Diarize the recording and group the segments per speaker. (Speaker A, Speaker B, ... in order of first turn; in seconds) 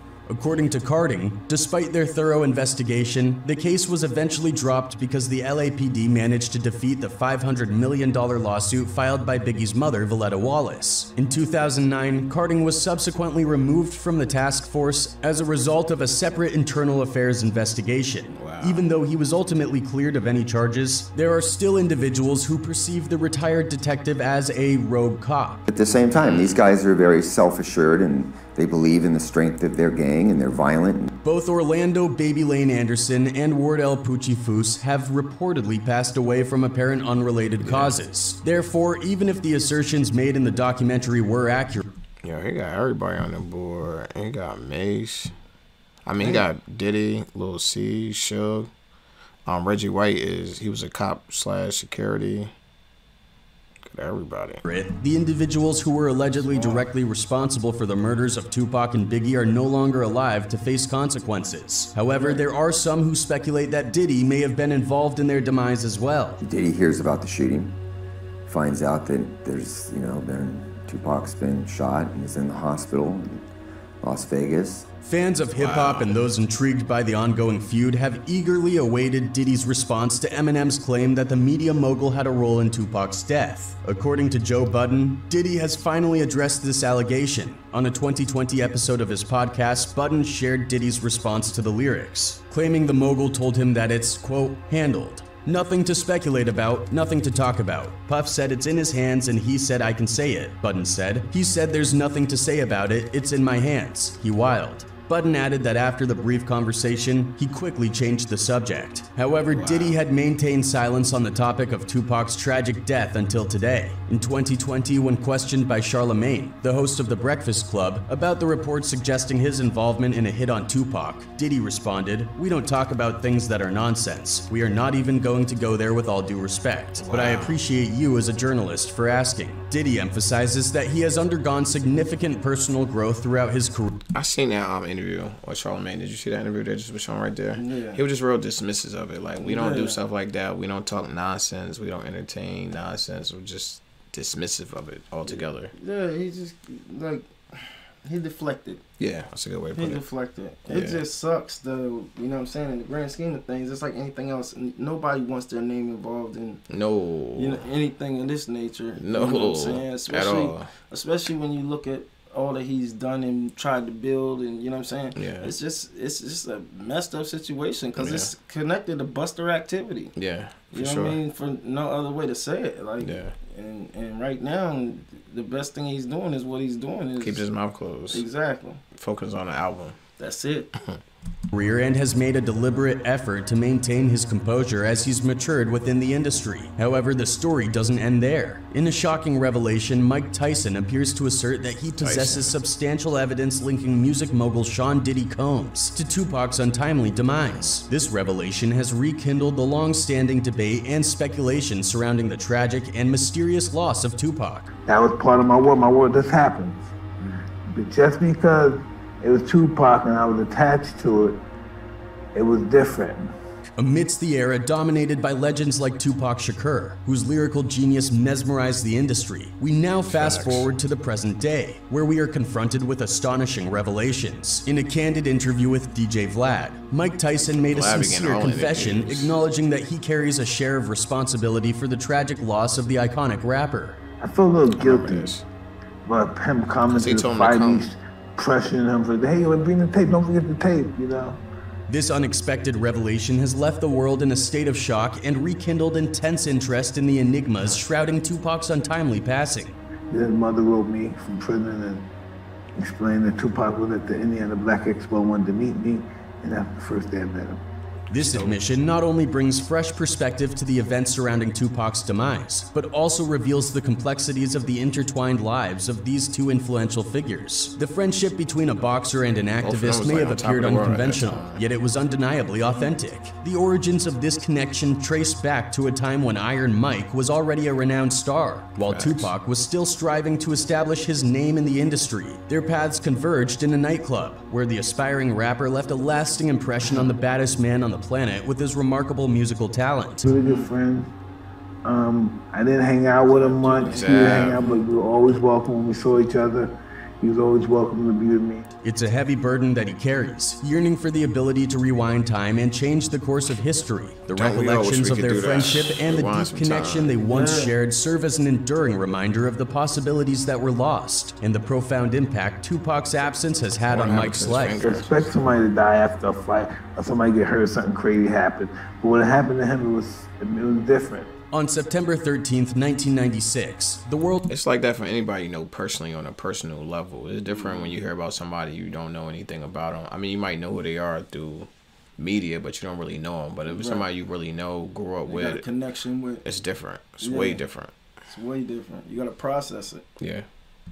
Speaker A: 0.3-25.6, 31.2-41.9, 54.6-66.4, 75.0-134.0, 181.5-204.7, 213.8-234.0, 241.9-249.8, 258.1-290.3, 298.8-314.8, 321.5-324.4
Speaker B: 18.3-18.9, 26.2-26.7, 37.6-38.0, 42.2-45.3, 46.0-48.7, 49.5-52.5, 53.9-54.6, 75.5-76.3, 109.5-110.0, 127.0-127.6, 134.1-145.7, 149.0-150.0, 150.7-151.0, 156.7-157.7, 159.0-160.7, 165.2-165.5, 168.0-168.3, 170.2-171.2, 173.0-173.3, 177.2-178.2, 178.9-180.0, 192.0-192.6, 197.5-197.8, 220.1-220.7, 227.6-229.3, 234.7-235.4, 236.9-237.9, 258.1-258.6, 269.6-271.6, 278.8-279.3, 293.3-295.4, 304.4-307.2, 313.9-315.3, 324.5-335.6, 336.4-337.9, 340.2-340.5
Speaker C: 25.7-31.2, 66.4-67.8, 68.5-73.5, 74.0-74.9
Speaker D: 56.4-56.8, 137.6-138.0, 139.4-140.0, 145.3-148.8, 149.7-156.6, 157.4-170.1, 170.7-177.5, 178.1-178.8, 180.2-180.7, 290.4-290.7, 293.4-294.9, 307.2-307.7, 327.5-328.0, 333.7-334.1, 335.3-336.4, 337.2-337.6, 338.3-340.1
Speaker E: 204.9-206.9, 207.7-211.4, 212.3-213.3, 234.2-235.3, 236.1-241.4, 250.1-252.1, 252.8-257.6, 290.2-291.1, 291.8-298.7, 314.8-321.3